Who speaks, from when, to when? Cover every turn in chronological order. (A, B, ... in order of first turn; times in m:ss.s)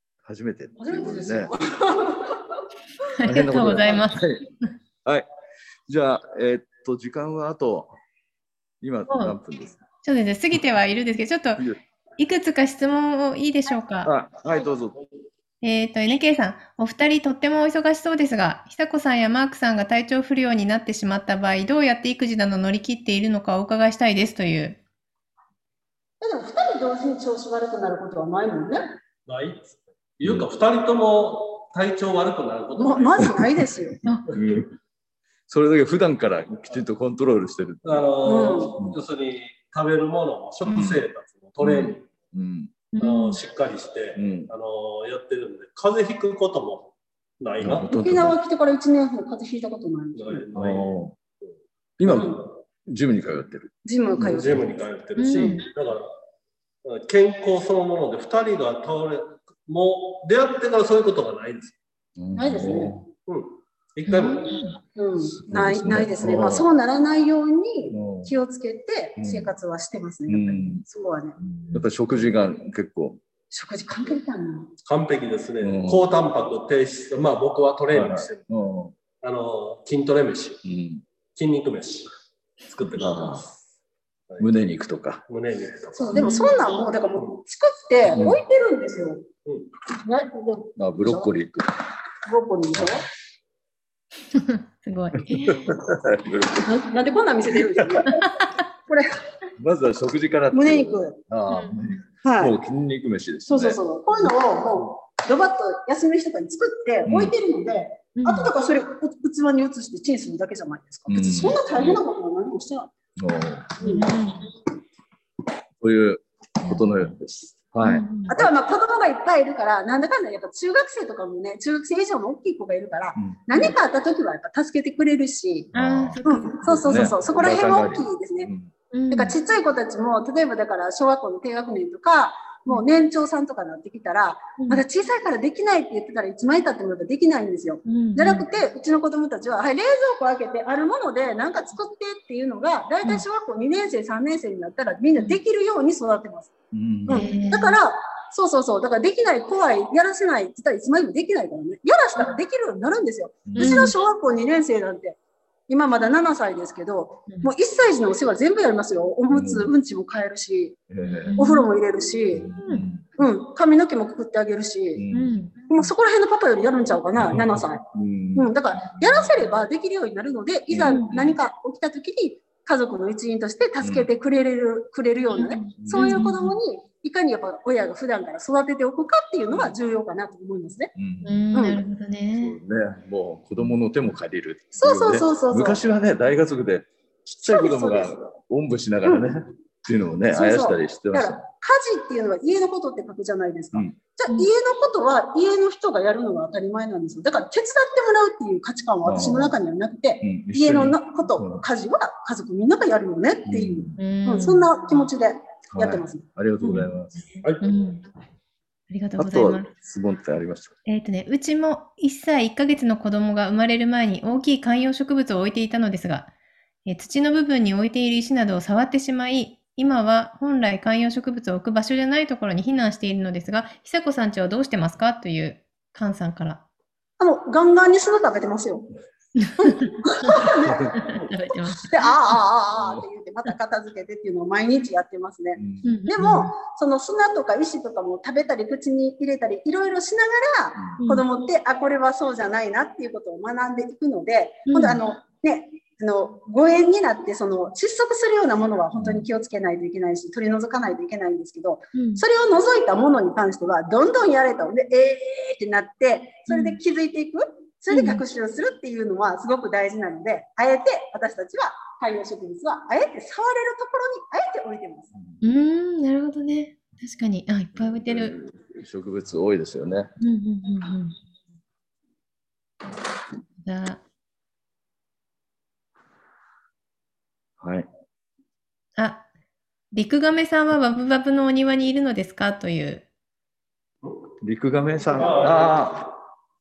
0:00.2-0:01.5 A
0:00.8-0:02.6 B
0:03.1-0:04.3 C
0:03.2-0:04.4 A
0:05.9-0:07.9 A
0:08.8-0:09.8 A
0:09.1-0:09.4 C
0:10.0-0:11.6 C
0:12.2-0:14.1 C
0:14.0-0:15.0 A
0:15.6-0:24.8 C
0:26.2-0:29.0 B
0:29.3-0:33.5 D
0:32.8-0:34.0 B
0:34.3-0:34.8 A
0:35.5-0:38.1 A
0:37.8-0:42.0 D
0:38.2-0:38.8 B
0:40.7-0:41.0 A
0:41.6-0:42.7 A
0:42.9-0:43.4 C
0:43.0-0:47.9 D
0:44.2-0:44.5 A
0:47.6-0:48.4 A
0:47.9-0:50.5 B
0:50.2-0:50.9 D
0:50.5-0:51.2 A
0:52.0-0:54.5 A
0:52.1-0:52.4 B
0:53.8-0:54.7 B
0:54.2-0:56.1 D
0:55.2-0:55.7 C
0:56.8-1:01.8 D
1:02.2-1:03.1 A
1:02.3-1:03.0 B
1:03.3-1:04.6 D
1:04.1-1:04.8 C
1:05.0-1:11.4 B
1:05.4-1:06.7 A
1:07.9-1:08.3 A
1:09.2-1:09.5 A
1:10.3-1:10.8 A
1:11.6-1:13.2 A
1:13.5-1:14.7 B
1:14.8-1:18.4 D
1:15.6-1:16.1 A
1:17.9-1:18.9 A
1:19.2-1:20.6 D
1:20.6-1:21.0 A
1:21.4-1:22.1 D
1:22.7-1:23.5 D
1:22.9-1:23.5 A
1:24.4-1:25.2 A
1:25.3-1:26.3 D
1:26.0-1:29.3 B
1:26.1-1:26.6 C
1:28.1-1:28.4 A
1:29.9-1:31.6 B
1:30.8-1:31.6 A
1:32.2-1:33.1 B
1:34.3-1:35.7 C
1:35.3-1:36.7 A
1:36.6-1:39.2 B
1:37.8-1:38.1 A
1:38.1-1:38.5 C
1:39.6-1:43.8 A
1:40.5-1:41.2 B
1:41.5-1:41.8 C
1:42.2-1:42.6 B
1:43.5-1:52.9 B
1:47.1-1:47.4 A
1:48.2-1:48.5 C
1:51.1-1:52.0 A
1:53.2-1:53.8 A
1:53.8-1:54.1 B
1:53.8-1:54.5 C
1:55.8-1:58.5 A
1:57.8-1:58.3 C
1:58.3-2:05.7 B
2:03.2-2:03.7 A
2:05.7-2:06.7 C
2:05.7-2:08.7 A
2:06.2-2:08.5 B
2:08.9-2:09.4 C
2:09.1-2:26.5 B
2:17.9-2:18.4 C
2:26.7-2:27.3 A
2:27.1-2:35.2 B
2:27.1-2:27.8 C
2:33.5-2:33.9 A
2:33.6-2:34.0 C
2:35.7-2:40.8 B
2:39.3-2:39.7 A
2:40.9-2:41.4 A
2:41.0-2:41.7 C
2:41.4-2:42.6 B
2:42.3-2:43.1 A
2:42.6-2:42.9 C
2:43.2-2:45.0 B
2:45.0-2:45.4 A
2:45.1-2:45.5 C
2:45.7-2:47.8 B
2:47.2-2:48.5 A
2:48.4-3:00.9 B
2:50.7-2:51.4 A
2:53.8-2:54.1 A
2:55.3-2:56.6 C
2:55.8-2:56.3 A
2:59.5-2:59.8 A
3:01.0-3:01.3 A
3:01.2-3:02.6 C
3:01.5-3:01.8 B
3:02.3-3:11.4 A
3:04.8-3:05.8 B
3:07.4-3:08.2 B
3:10.3-3:26.2 B
3:19.0-3:19.6 A
3:20.2-3:21.6 A
3:23.5-3:24.0 A
3:24.0-3:24.7 C
3:25.7-3:27.2 A
3:26.6-3:26.9 C
3:27.6-3:28.0 C
3:28.9-3:29.7 C
3:29.2-3:30.8 A
3:30.9-3:36.3 C
3:36.9-3:46.6 C
3:47.2-3:48.9 B
3:49.4-3:52.1 C
3:49.6-3:51.1 B
3:51.7-4:25.1 B
3:55.6-3:55.9 A
3:55.8-3:56.5 C
4:04.7-4:05.0 C
4:09.0-4:09.3 A
4:12.0-4:12.2 C
4:16.5-4:16.8 C
4:17.9-4:18.2 C
4:25.2-4:25.4 A
4:25.4-4:28.4 C
4:27.7-4:30.1 A
4:30.2-4:31.2 C
4:33.6-4:34.0 C
4:37.6-4:37.9 A
4:39.0-4:39.2 C
4:39.9-4:43.1 C
4:44.4-4:46.1 A
4:45.1-4:46.0 D